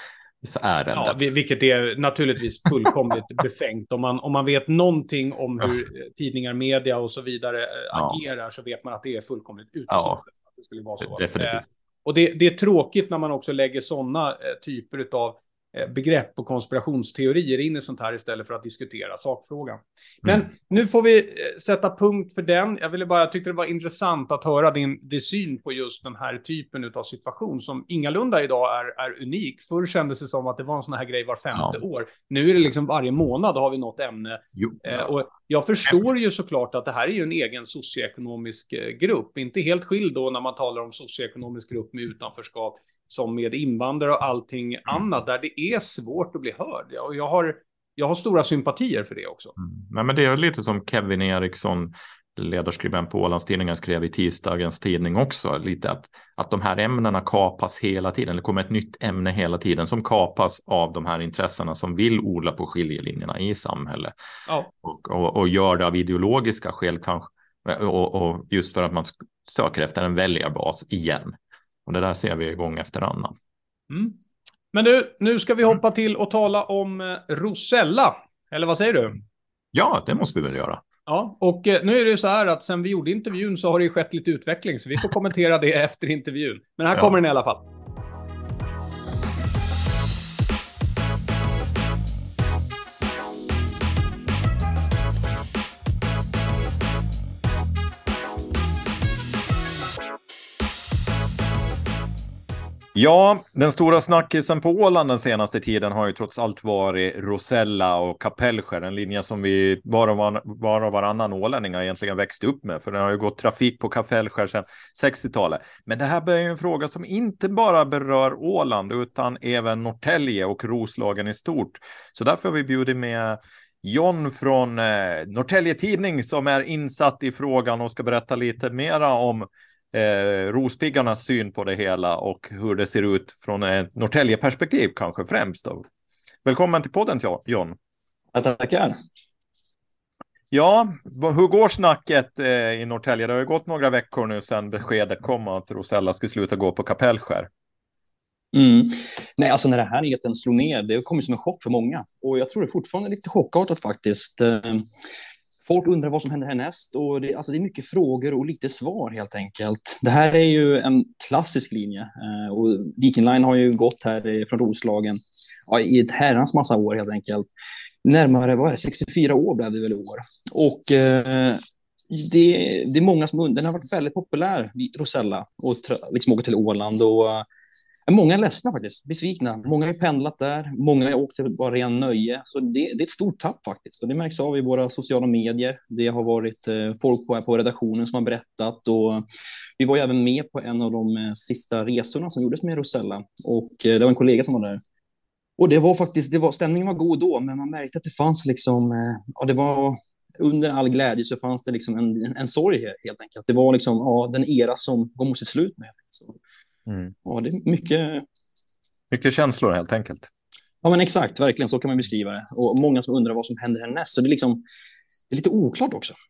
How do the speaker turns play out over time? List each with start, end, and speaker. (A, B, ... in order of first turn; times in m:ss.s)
0:00.4-0:01.2 A
0:00.9-0:49.5 B
0:07.9-0:08.2 A
0:09.9-0:10.2 A
0:11.0-0:11.6 A
0:34.6-0:35.0 A
0:49.6-1:04.1 A
1:04.8-1:13.3 A
1:13.9-1:14.2 B
1:14.7-1:19.2 B
1:19.7-1:20.8 A
1:21.1-1:27.6 B
1:42.9-2:15.8 A
2:16.4-2:17.8 A
2:18.3-2:18.9 C
2:20.5-2:27.5 A
2:28.5-2:34.8 C
2:35.7-2:47.5 C
2:48.0-2:57.4 C
2:58.1-3:09.2 C
3:09.8-3:14.8 C
3:15.6-3:26.4 C
3:26.9-3:27.1 A
3:27.2-3:28.2 C
3:29.1-3:30.3 A
3:30.8-3:34.6 C
3:35.3-3:36.1 C